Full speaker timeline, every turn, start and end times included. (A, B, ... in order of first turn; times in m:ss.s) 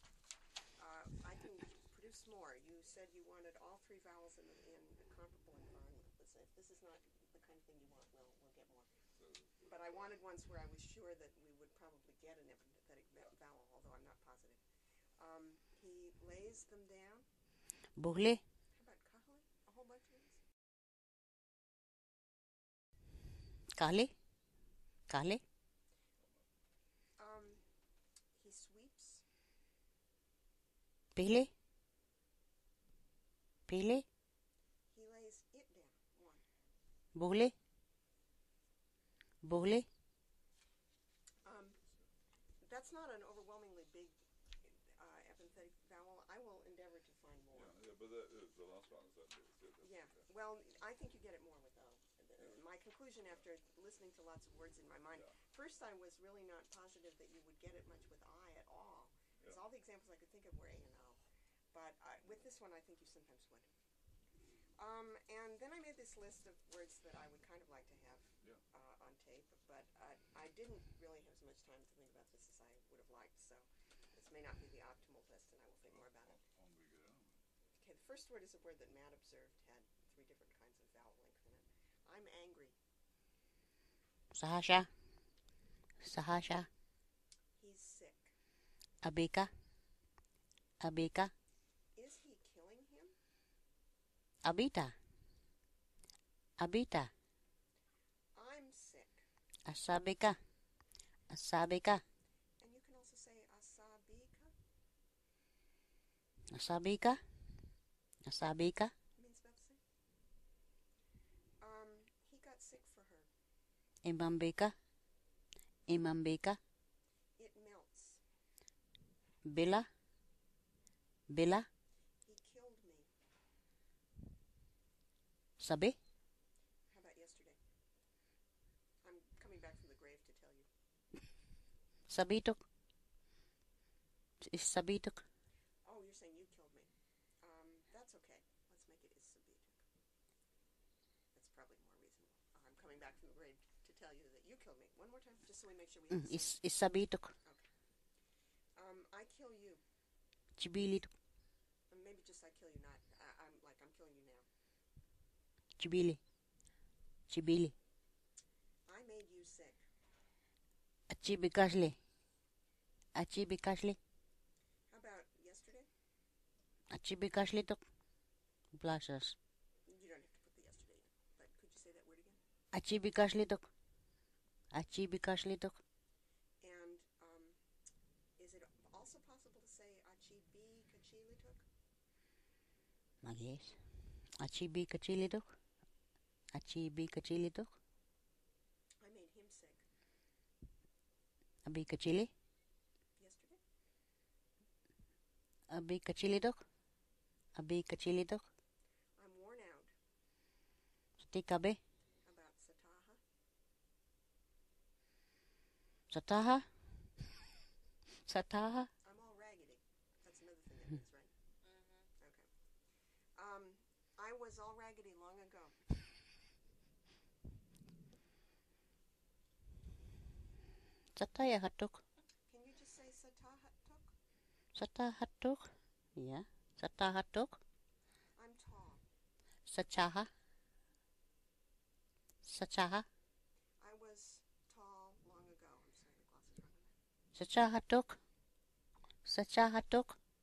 0:00.8-0:08.9 A
0:09.2-0:10.1 B
0:09.6-0:14.6 A
0:15.2-0:17.2 A
0:18.0-0:18.4 C
0:18.7-0:20.4 A
0:23.7-0:24.1 C
0:25.1-0:25.4 C
0:27.2-0:27.6 A
0:28.3-0:29.2 A
0:31.1-0:31.5 C
0:33.7-0:34.0 C
0:34.9-0:36.4 A
0:37.1-0:37.5 C
0:39.4-0:39.9 C
0:41.4-0:41.8 A
0:42.6-0:47.8 A
0:47.5-0:50.2 B
0:49.8-1:01.2 A
1:01.7-1:03.7 A
1:04.8-1:16.4 A
1:16.1-1:17.4 B
1:17.8-1:22.8 A
1:24.3-1:24.9 C
1:26.0-1:26.7 C
1:27.6-1:28.3 A
1:29.0-1:29.5 C
1:30.8-1:31.3 C
1:32.0-1:33.1 A
1:34.4-1:34.9 C
1:36.6-1:37.1 C
1:38.3-1:39.2 A
1:39.6-1:40.4 C
1:41.3-1:42.0 C
1:42.6-1:44.5 A
1:46.5-1:47.2 C
1:48.2-1:48.9 C
1:49.2-1:49.8 A
1:51.6-1:53.3 A
1:54.0-1:54.7 C
1:55.9-1:56.6 C
1:57.4-1:58.2 A
1:59.4-1:59.9 C
2:01.3-2:01.7 C
2:02.2-2:03.1 A
2:05.6-2:06.0 C
2:06.9-2:07.6 A
2:09.0-2:10.7 A
2:12.1-2:12.6 C
2:14.4-2:15.2 C
2:15.8-2:16.9 A
2:17.4-2:19.8 A
2:21.3-2:26.6 A
2:26.1-2:27.3 C
2:27.4-2:27.7 A
2:28.8-2:29.8 A
2:30.6-2:31.1 C
2:31.9-2:34.4 A
2:35.8-2:36.2 C
2:37.3-2:37.7 C
2:38.9-2:39.8 A
2:41.1-2:42.0 C
2:43.1-2:44.0 C
2:44.9-2:45.9 A
2:46.9-2:47.8 C
2:48.7-2:49.3 C
2:49.8-2:52.4 A
2:52.7-2:53.7 C
2:54.7-2:55.8 C
2:56.6-2:57.6 A
2:58.4-3:01.7 A
3:03.2-3:03.8 C
3:04.4-3:05.5 C
3:06.5-3:07.7 C
3:09.0-3:09.8 A
3:11.6-3:12.3 C
3:13.2-3:13.6 A
3:15.7-3:16.6 C
3:17.6-3:18.4 C
3:19.2-3:19.9 A
3:21.2-3:21.8 C
3:22.2-3:23.2 A
3:26.1-3:26.6 C
3:28.2-3:28.9 C
3:29.0-3:31.3 A
3:32.1-3:32.5 A
3:33.4-3:35.8 A
3:41.2-3:42.0 C
3:42.5-3:44.1 A
3:44.7-3:47.6 C
3:48.3-3:49.0 A
3:49.6-3:50.3 C
3:52.4-3:53.0 C
3:53.8-3:56.9 A
3:57.3-3:58.2 C
3:59.2-4:00.1 C